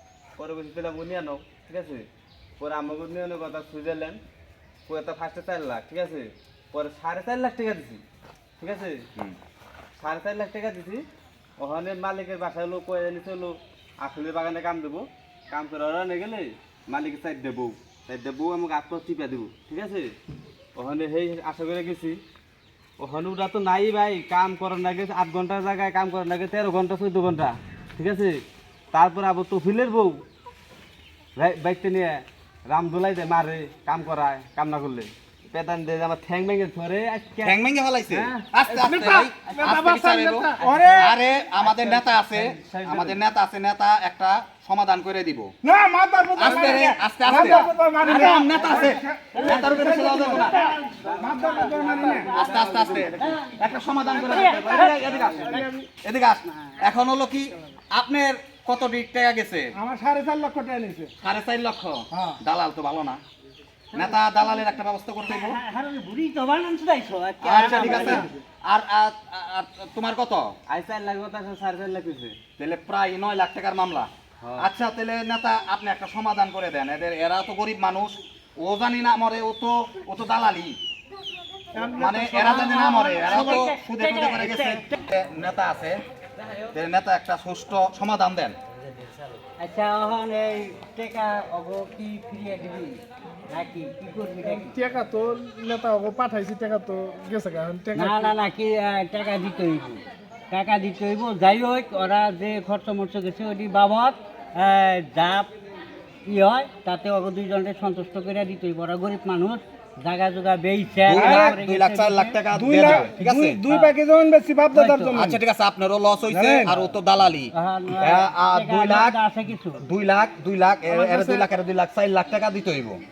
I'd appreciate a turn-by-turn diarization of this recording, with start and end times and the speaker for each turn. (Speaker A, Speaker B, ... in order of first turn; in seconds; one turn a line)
Speaker A: 0.4-2.0
Speaker A: 2.6-4.2
Speaker A: 4.9-8.0
Speaker A: 8.6-9.0
Speaker A: 10.0-11.0
Speaker A: 11.6-20.1
Speaker A: 20.8-22.2
Speaker A: 23.0-28.4
Speaker A: 28.9-30.2
Speaker A: 31.4-39.8
Speaker B: 37.4-45.5
Speaker C: 38.8-40.5
Speaker A: 40.6-41.1
Speaker D: 40.6-41.1
Speaker A: 41.6-43.2
Speaker D: 45.6-52.3
Speaker B: 46.4-50.6
Speaker E: 49.3-55.7
Speaker A: 49.4-53.4
Speaker B: 52.3-59.7
Speaker A: 54.4-55.6
Speaker C: 55.4-55.9
Speaker E: 56.5-56.8
Speaker D: 59.8-61.1
Speaker B: 61.2-63.2
Speaker D: 62.1-62.4
Speaker E: 63.9-68.4
Speaker B: 63.9-65.6
Speaker B: 67.4-70.5
Speaker D: 67.6-68.3
Speaker A: 70.7-72.4
Speaker B: 72.6-80.8
Speaker A: 74.4-74.7
Speaker D: 81.7-83.6
Speaker B: 82.0-86.0
Speaker E: 82.3-84.9
Speaker B: 86.6-88.6
Speaker E: 89.6-94.7
Speaker C: 94.4-98.4
Speaker E: 97.9-105.5
Speaker E: 106.2-112.3
Speaker B: 111.0-113.6
Speaker D: 111.2-111.5
Speaker D: 112.5-115.4
Speaker E: 113.7-113.9
Speaker E: 114.7-115.2
Speaker B: 115.1-119.2
Speaker D: 116.3-116.8
Speaker E: 117.5-119.8
Speaker B: 119.7-123.0
Speaker C: 120.8-121.5